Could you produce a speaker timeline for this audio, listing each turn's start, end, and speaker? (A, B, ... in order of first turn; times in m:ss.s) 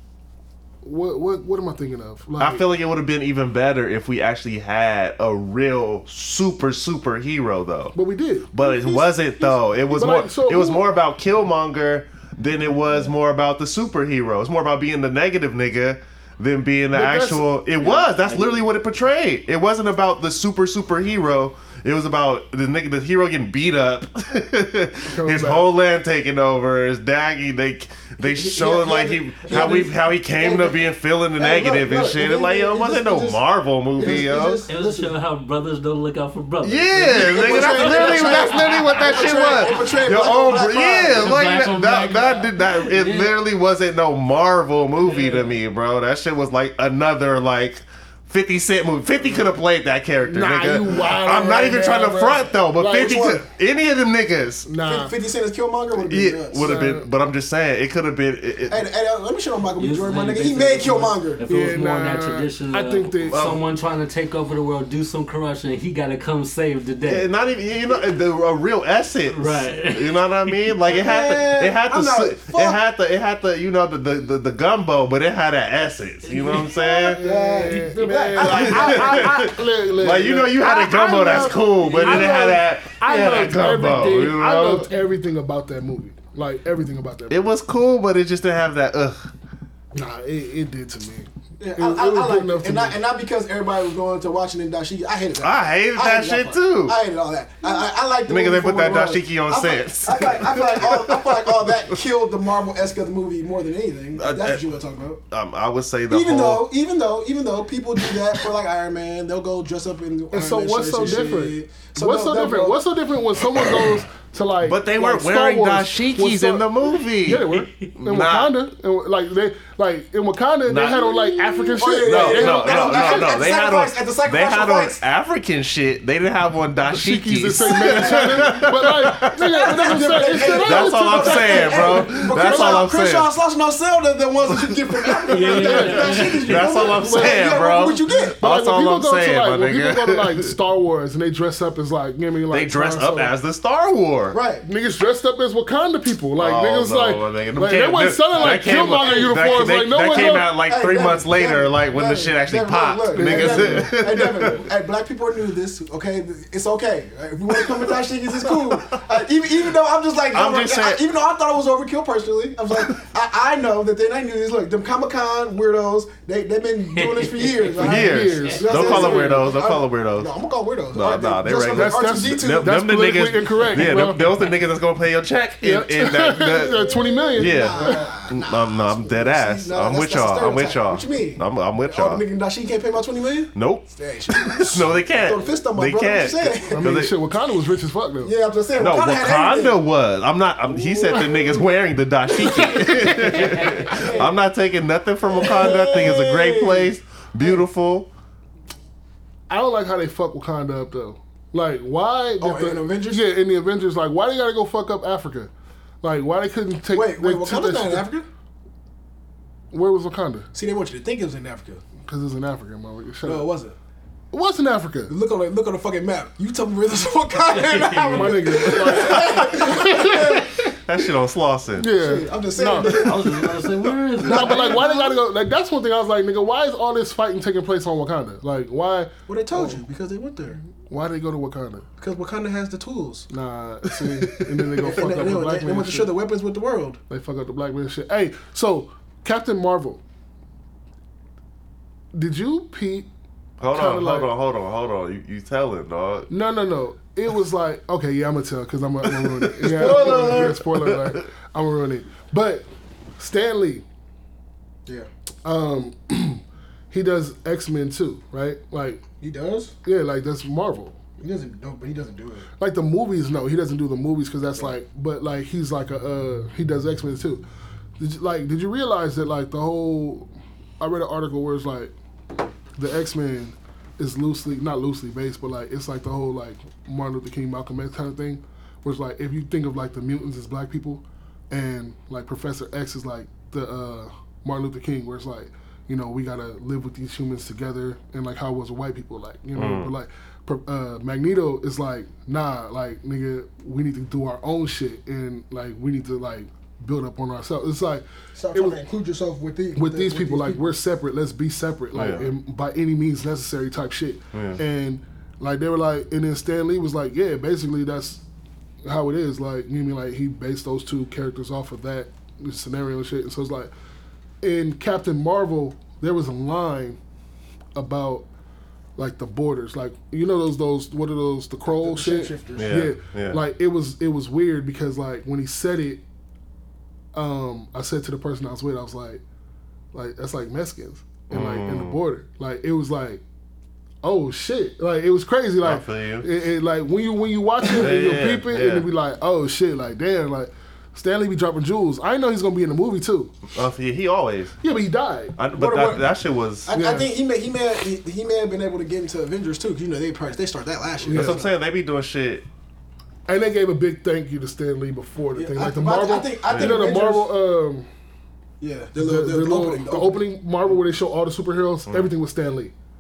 0:00.8-0:02.7 A
0:02.4-0:08.0 B
0:08.0-0:10.9 A
0:08.5-0:34.6 B
0:16.9-0:17.5 A
0:17.8-0:18.6 C
0:25.1-0:25.7 A
0:28.2-0:33.4 D
0:29.5-0:29.8 C
0:34.0-0:35.1 D
0:34.0-0:40.0 C
0:36.6-0:54.7 B
0:37.1-0:41.4 D
0:41.1-0:43.4 C
0:45.0-0:45.6 C
0:50.3-0:53.4 A
0:52.9-0:53.4 D
0:54.7-0:55.1 A
0:54.8-0:56.8 D
0:56.0-0:58.8 B
0:56.6-0:57.1 A
0:58.7-1:01.4 D
0:59.8-1:07.3 C
1:01.5-1:03.5 A
1:03.3-1:03.6 B
1:07.0-1:17.2 B
1:09.3-1:10.7 C
1:10.9-1:12.8 D
1:16.2-1:17.9 C
1:17.0-1:27.5 A
1:17.2-1:19.4 D
1:18.4-1:24.9 B
1:27.3-1:29.3 B
1:29.9-1:33.0 A
1:31.6-1:45.2 D
1:35.4-1:37.0 B
1:38.3-1:42.0 B
1:44.2-1:44.6 B
1:45.3-1:46.7 B
1:46.1-1:52.8 D
1:50.3-2:03.4 A
1:54.6-1:58.5 B
1:57.3-1:57.7 C
2:00.7-2:13.3 B
2:01.8-2:05.0 D
2:06.9-2:12.9 A
2:07.8-2:08.5 D
2:09.5-2:18.4 D
2:15.2-2:15.5 B
2:15.3-2:16.7 C
2:15.4-2:17.6 A
2:16.1-2:20.5 B
2:18.4-2:23.3 A
2:22.5-2:24.4 B
2:24.3-2:24.6 D
2:24.6-2:30.6 A
2:26.4-2:34.6 B
2:28.4-2:52.8 D
2:33.1-2:34.0 A
2:38.5-2:39.0 B
2:40.3-2:41.0 B
2:47.0-2:48.6 C
2:47.8-2:50.3 B
2:47.8-2:49.5 A
2:50.9-3:02.2 B
2:51.7-2:54.4 A
2:55.6-2:58.1 A
2:56.6-3:07.0 D
3:03.6-3:03.9 B
3:04.4-3:07.2 B
3:06.7-3:08.3 A
3:08.2-3:09.8 D
3:08.8-3:18.1 B
3:10.9-3:11.4 D
3:12.4-3:13.5 A
3:13.6-3:14.3 D
3:15.3-3:17.6 D
3:19.5-3:25.5 A
3:22.4-3:23.2 D
3:26.0-3:28.1 A
3:26.9-3:28.2 D
3:29.7-3:30.5 A
3:30.5-3:31.8 D
3:32.0-3:33.5 A
3:33.2-3:33.8 D
3:34.3-3:35.2 A
3:35.1-3:40.6 D
3:37.5-3:38.8 C
3:38.1-3:40.8 A
3:40.1-3:41.9 B
3:41.8-3:43.3 A
3:41.9-3:45.2 D
3:42.7-3:45.0 C
3:44.2-3:49.8 A
3:49.3-3:50.6 D
3:50.9-3:51.9 A
3:52.0-3:53.3 D
3:53.3-3:56.1 A
3:54.8-3:57.0 D
3:57.1-4:00.0 A
4:02.1-4:03.1 A
4:03.6-4:06.3 B
4:03.7-4:04.3 A
4:06.3-4:12.7 A
4:09.0-4:11.2 B
4:09.6-4:10.6 D
4:13.2-4:13.8 A
4:15.4-4:19.0 A
4:19.2-4:19.8 D
4:19.8-4:21.0 A
4:21.2-4:22.5 D
4:22.6-4:27.4 A
4:28.0-4:30.3 A
4:30.8-4:31.9 A
4:32.8-4:58.8 A
4:49.6-4:49.9 B
4:58.4-5:00.6 D
4:59.8-5:08.2 A
5:01.9-5:02.3 B
5:04.3-5:04.6 B
5:08.8-5:13.7 A
5:14.4-5:17.0 A
5:17.8-5:18.3 A
5:19.0-5:26.0 A
5:21.7-5:22.8 D
5:22.6-5:23.4 B
5:27.2-5:29.2 A
5:29.9-5:33.2 A
5:31.3-5:32.0 B
5:34.0-5:43.3 A
5:35.6-5:36.3 B
5:37.7-5:38.9 B
5:43.5-5:44.6 B
5:44.6-5:45.4 A
5:45.4-5:46.8 B
5:45.5-5:46.1 D
5:46.7-5:51.5 D
5:46.7-5:47.1 A
5:51.1-5:51.4 A
5:51.1-5:52.4 B
5:53.3-5:57.9 A
5:55.4-5:57.3 D
5:56.5-5:56.8 B
5:58.6-6:00.2 D
5:59.0-6:02.7 A